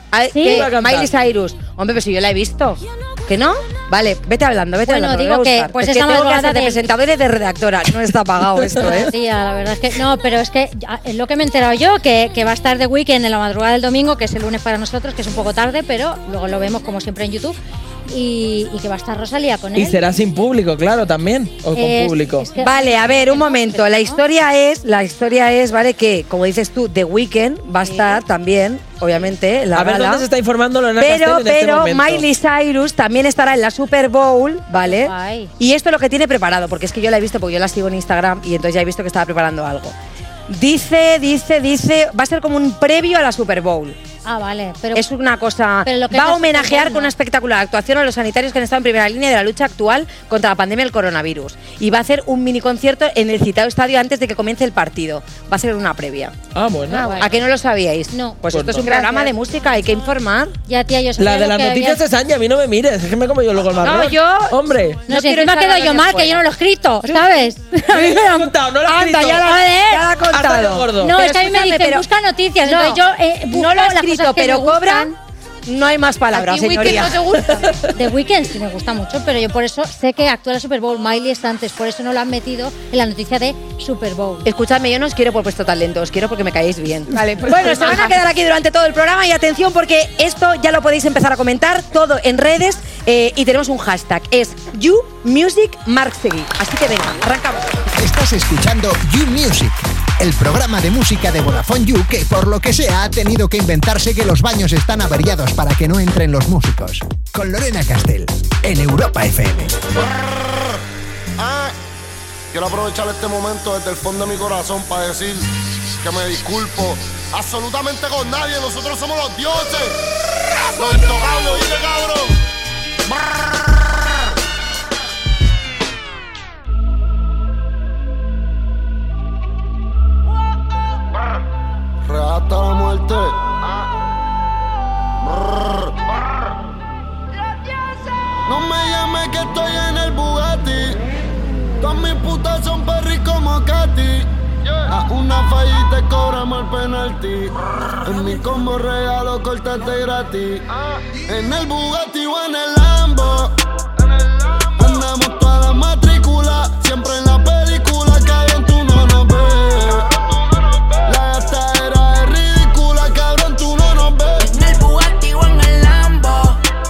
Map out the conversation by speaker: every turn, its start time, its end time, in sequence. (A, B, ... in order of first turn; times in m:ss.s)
0:00.1-0:09.1 A
0:00.3-0:00.7 B
0:00.4-0:01.1 C
0:04.8-0:06.8 B
0:09.0-0:20.0 B
0:19.7-0:22.5 C
0:21.7-0:24.2 B
0:22.6-0:30.2 A
0:27.8-0:28.2 B
0:29.7-0:32.2 C
0:31.0-0:39.9 A
0:34.8-0:35.5 B
0:40.5-0:44.0 A
0:44.2-0:45.0 B
0:44.9-0:56.3 A
0:45.8-0:47.1 B
0:56.5-0:57.2 C
0:56.9-0:57.2 D
0:57.0-1:00.5 A
0:58.1-0:58.4 B
0:58.5-0:58.9 C
0:58.8-0:59.3 D
1:00.7-1:02.0 B
1:01.2-1:05.0 C
1:03.8-1:06.4 A
1:05.1-1:08.5 B
1:07.9-1:09.4 C
1:08.9-1:12.0 A
1:09.4-1:10.1 B
1:10.3-1:11.1 C
1:11.0-1:15.1 B
1:12.6-1:13.0 A
1:13.5-1:15.1 A
1:15.6-1:17.2 A
1:16.3-1:17.7 D
1:17.9-1:24.5 B
1:24.4-1:37.8 A
1:27.1-1:28.2 D
1:38.0-1:49.8 E
1:50.0-1:50.4 F
1:51.4-1:51.7 F
1:52.5-1:55.5 F
1:56.0-1:59.9 F
2:00.7-2:02.3 F
2:12.0-2:13.7 F
2:15.2-2:16.0 F
2:18.5-2:21.0 F
2:21.8-2:24.3 F
2:24.8-2:27.5 F
2:28.0-2:33.5 F
2:34.8-2:40.2 F
2:41.0-2:44.4 F
2:44.4-2:46.6 G